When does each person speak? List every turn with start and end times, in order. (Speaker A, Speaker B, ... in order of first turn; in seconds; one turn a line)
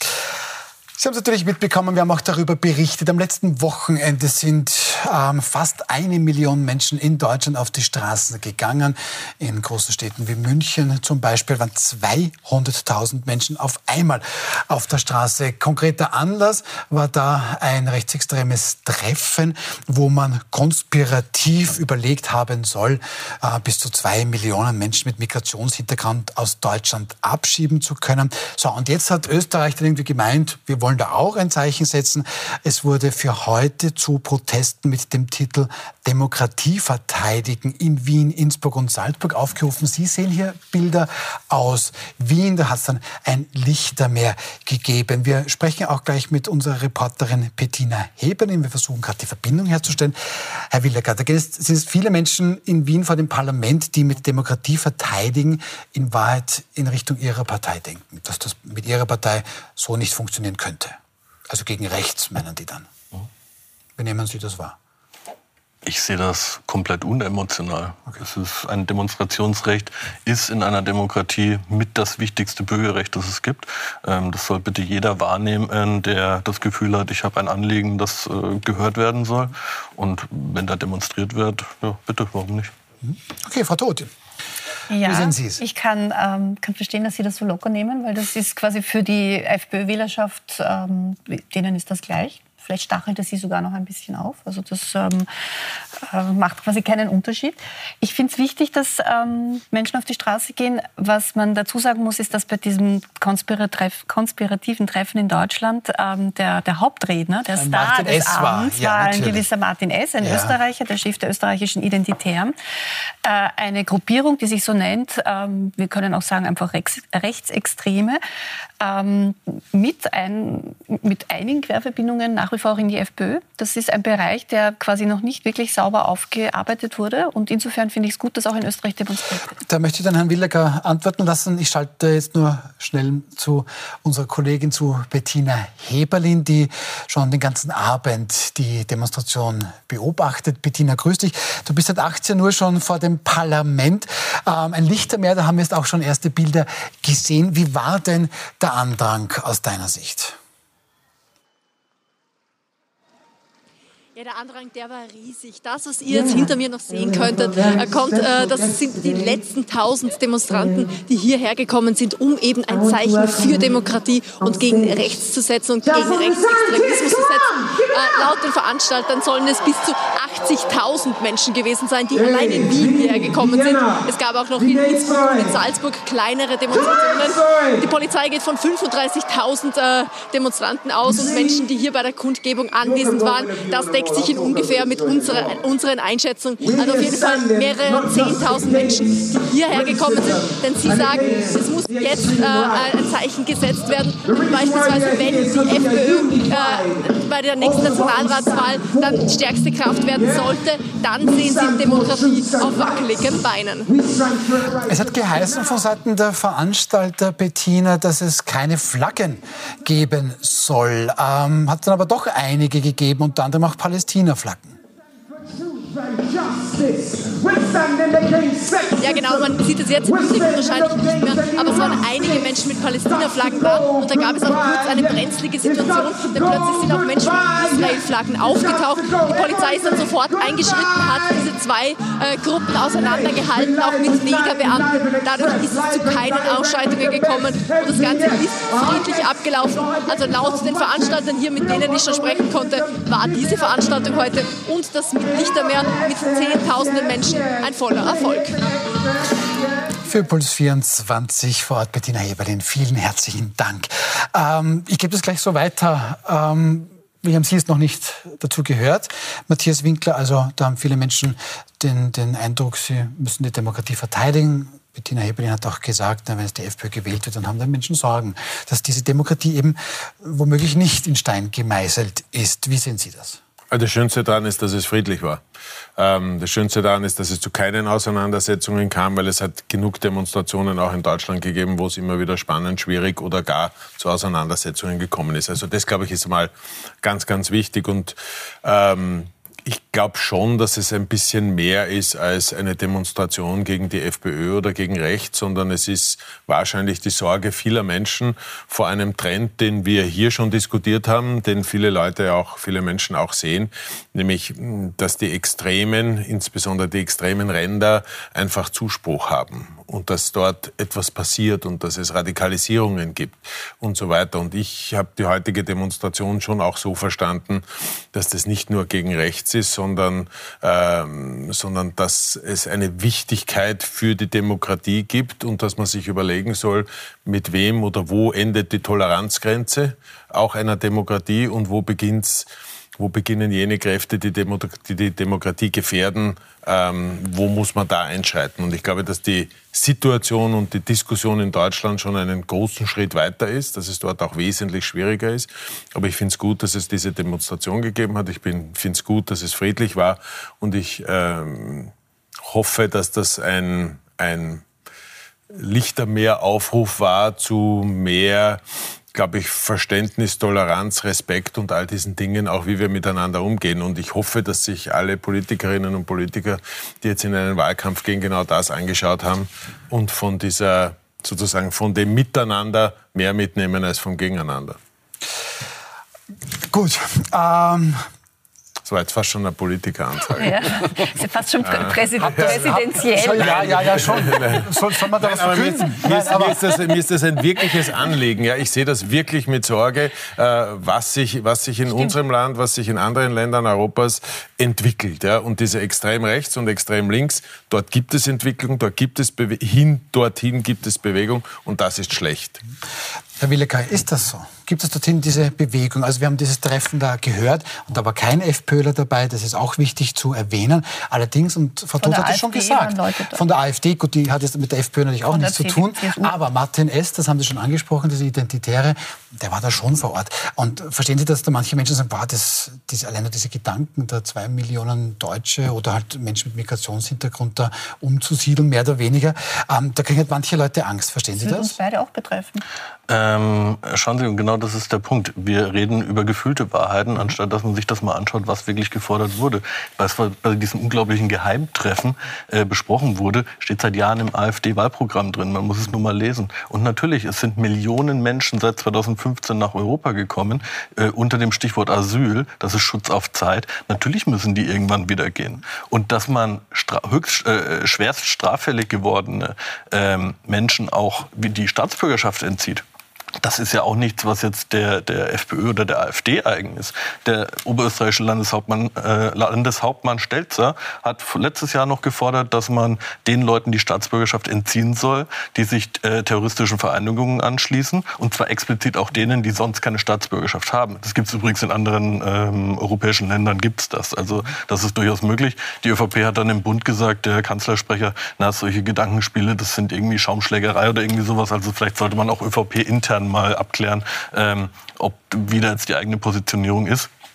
Speaker A: 1.0-61.0
Speaker A: 61.5-62.9
Speaker A: 64.0-64.8
Speaker B: 65.8-82.7
Speaker A: 83.0-84.1
Speaker C: 84.9-95.3
Speaker A: 85.0-85.6
Speaker C: 96.0-112.5
Speaker A: 107.5-109.4
Speaker A: 110.2-110.6
Speaker C: 113.2-118.2
Speaker C: 118.8-129.5
Speaker A: 129.7-150.4
Speaker D: 154.1-203.9
Speaker A: 204.8-214.8
Speaker D: 219.0-248.9
Speaker A: 250.0-273.4
Speaker E: 273.7-275.4
Speaker E: 276.0-351.9
Speaker E: 352.4-354.6
Speaker E: 355.5-374.8
Speaker A: 376.7-378.1
Speaker E: 378.9-381.0
Speaker C: 380.4-383.8
Speaker E: 381.6-402.6
Speaker A: 382.2-386.8
Speaker A: 403.4-431.8
Speaker C: 412.0-413.4
Speaker C: 415.3-416.3
Speaker C: 431.3-432.6
Speaker B: 433.1-462.8
Speaker B: 463.4-497.1